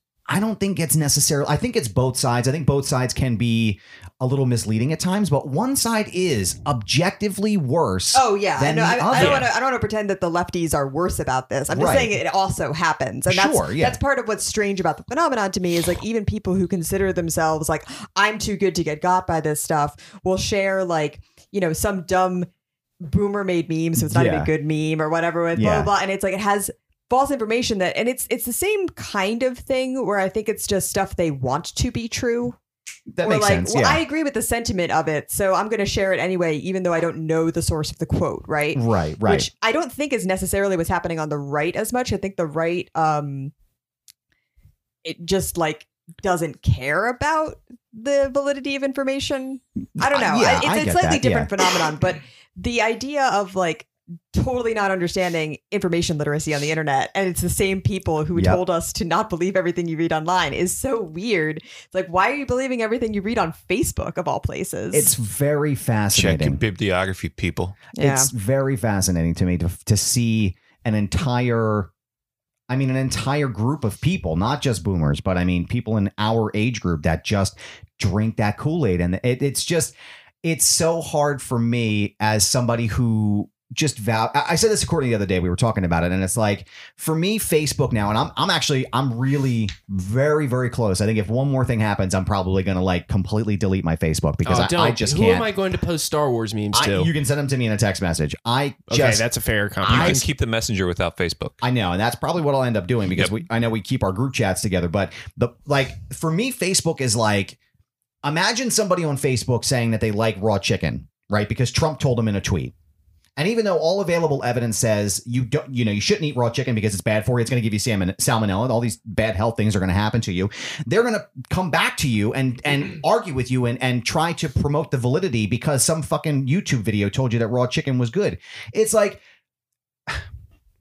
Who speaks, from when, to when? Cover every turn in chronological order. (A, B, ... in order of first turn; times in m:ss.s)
0:00.3-0:09.5 A
0:08.1-0:22.5 B
0:11.7-0:12.2 A
0:13.3-0:14.0 A
0:23.0-0:32.6 B
0:24.0-0:24.5 A
0:25.6-0:25.9 A
0:33.1-0:34.0 A
0:33.2-0:43.5 B
0:38.8-0:39.5 A
0:45.0-1:05.1 B
0:50.0-0:51.5 A
0:58.4-0:58.6 A
1:04.9-1:06.6 A
1:06.1-1:07.8 C
1:07.9-1:08.3 B
1:08.0-1:11.9 A
1:12.7-1:35.5 A
1:34.4-1:37.1 D
1:36.7-1:39.3 A
1:38.9-1:40.3 D
1:39.8-1:40.2 A
1:39.8-1:41.6 C
1:41.6-1:47.6 A
1:48.2-1:52.7 A
1:53.4-2:09.2 A